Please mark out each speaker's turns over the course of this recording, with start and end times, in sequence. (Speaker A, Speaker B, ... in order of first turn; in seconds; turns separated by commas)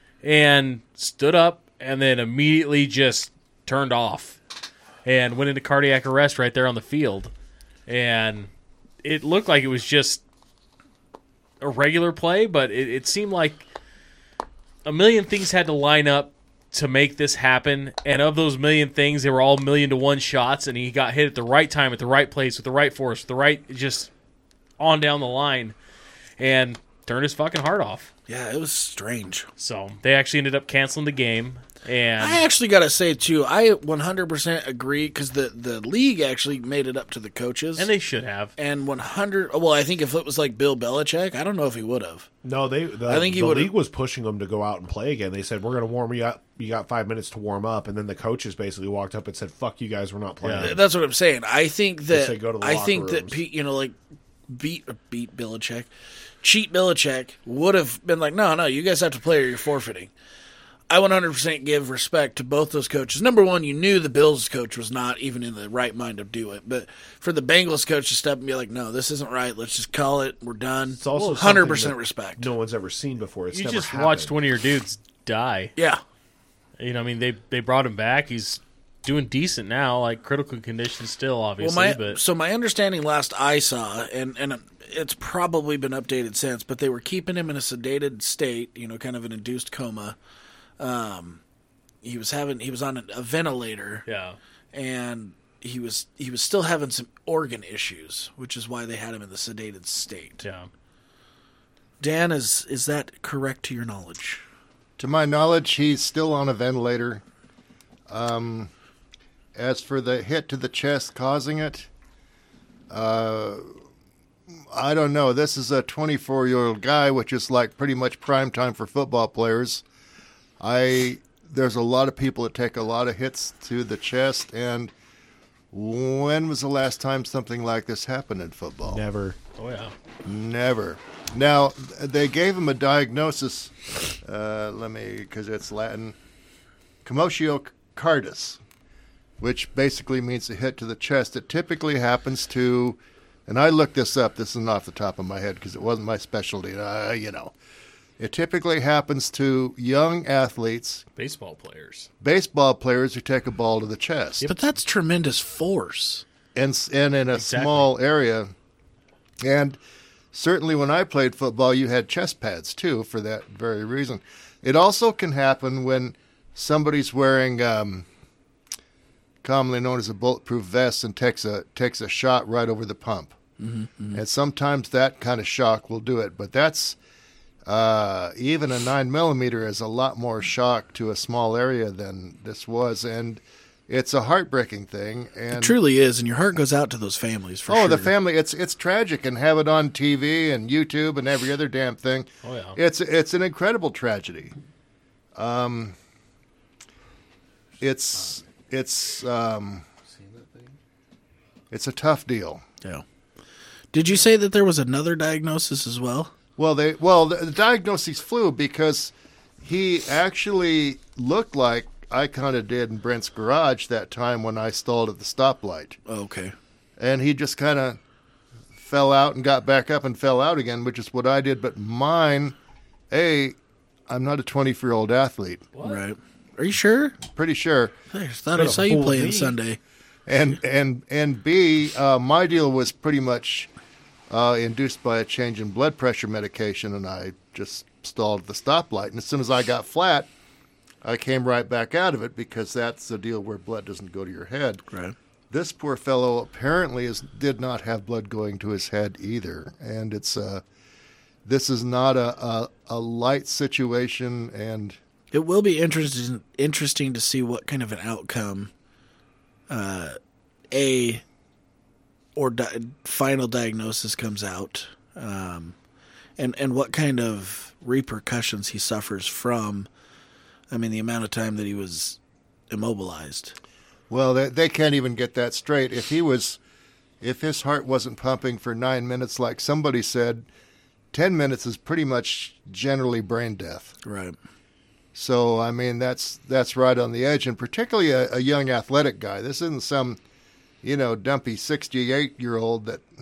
Speaker A: 0.2-4.4, Speaker A: 5.0-7.3, Speaker A: 7.9-8.5, Speaker A: 9.0-10.2, Speaker A: 11.6-13.7, Speaker A: 14.8-24.1, Speaker A: 24.8-25.8, Speaker A: 26.4-28.1, Speaker B: 28.3-29.5, Speaker A: 29.6-32.4, Speaker B: 32.2-37.9, Speaker A: 37.8-38.5, Speaker B: 38.6-42.3, Speaker C: 42.4-50.8, Speaker B: 43.1-43.7, Speaker A: 50.4-50.8, Speaker B: 50.6-54.0, Speaker C: 52.1-53.4, Speaker B: 54.5-60.1, Speaker B: 60.9-72.5, Speaker C: 71.0-74.3, Speaker A: 73.5-75.7, Speaker A: 76.8-82.2, Speaker B: 81.6-90.2, Speaker B: 90.8-91.4, Speaker B: 92.0-94.1, Speaker A: 94.1-94.4, Speaker B: 94.7-100.5, Speaker A: 100.4-100.7, Speaker B: 102.0-104.4, Speaker D: 105.0-107.2, Speaker D: 108.1-108.7, Speaker D: 109.6-111.9, Speaker D: 112.9-113.7, Speaker D: 114.7-119.8, Speaker D: 120.6-124.9, Speaker D: 125.7-129.0, Speaker C: 128.9-129.4, Speaker A: 129.6-129.9, Speaker D: 130.2-136.2, Speaker D: 137.0-138.6, Speaker D: 139.4-147.5, Speaker D: 148.2-151.0, Speaker A: 151.2-152.1, Speaker D: 152.2-154.4, Speaker B: 154.4-156.2, Speaker D: 156.6-158.5, Speaker A: 157.3-157.9, Speaker D: 159.4-159.8, Speaker D: 160.3-168.1, Speaker D: 169.4-173.4, Speaker B: 173.6-174.2, Speaker D: 174.1-177.0, Speaker D: 177.7-185.8, Speaker B: 185.5-188.1, Speaker D: 187.7-194.6, Speaker A: 192.4-192.8, Speaker D: 195.4-196.0, Speaker D: 197.8-199.9, Speaker C: 200.1-200.7, Speaker D: 201.7-202.6, Speaker B: 203.9-206.3, Speaker D: 206.6-216.0, Speaker B: 216.1-216.6, Speaker D: 217.0-218.0, Speaker D: 218.8-222.6, Speaker D: 223.1-223.6, Speaker D: 224.1-225.7, Speaker A: 225.8-226.0, Speaker B: 225.8-227.2, Speaker D: 227.2-227.9, Speaker B: 228.1-229.8, Speaker C: 228.6-229.6, Speaker D: 230.3-233.7, Speaker D: 234.3-240.3, Speaker D: 241.0-244.9, Speaker D: 245.5-250.6, Speaker D: 251.5-255.0, Speaker B: 255.3-258.7, Speaker B: 259.7-260.2, Speaker B: 260.7-261.2, Speaker B: 262.4-265.8, Speaker B: 266.4-269.9, Speaker B: 270.7-272.2, Speaker B: 272.7-273.6, Speaker D: 274.1-276.6, Speaker D: 277.2-280.5, Speaker D: 281.1-283.9, Speaker B: 284.0-284.4, Speaker D: 285.1-290.2, Speaker D: 290.8-293.1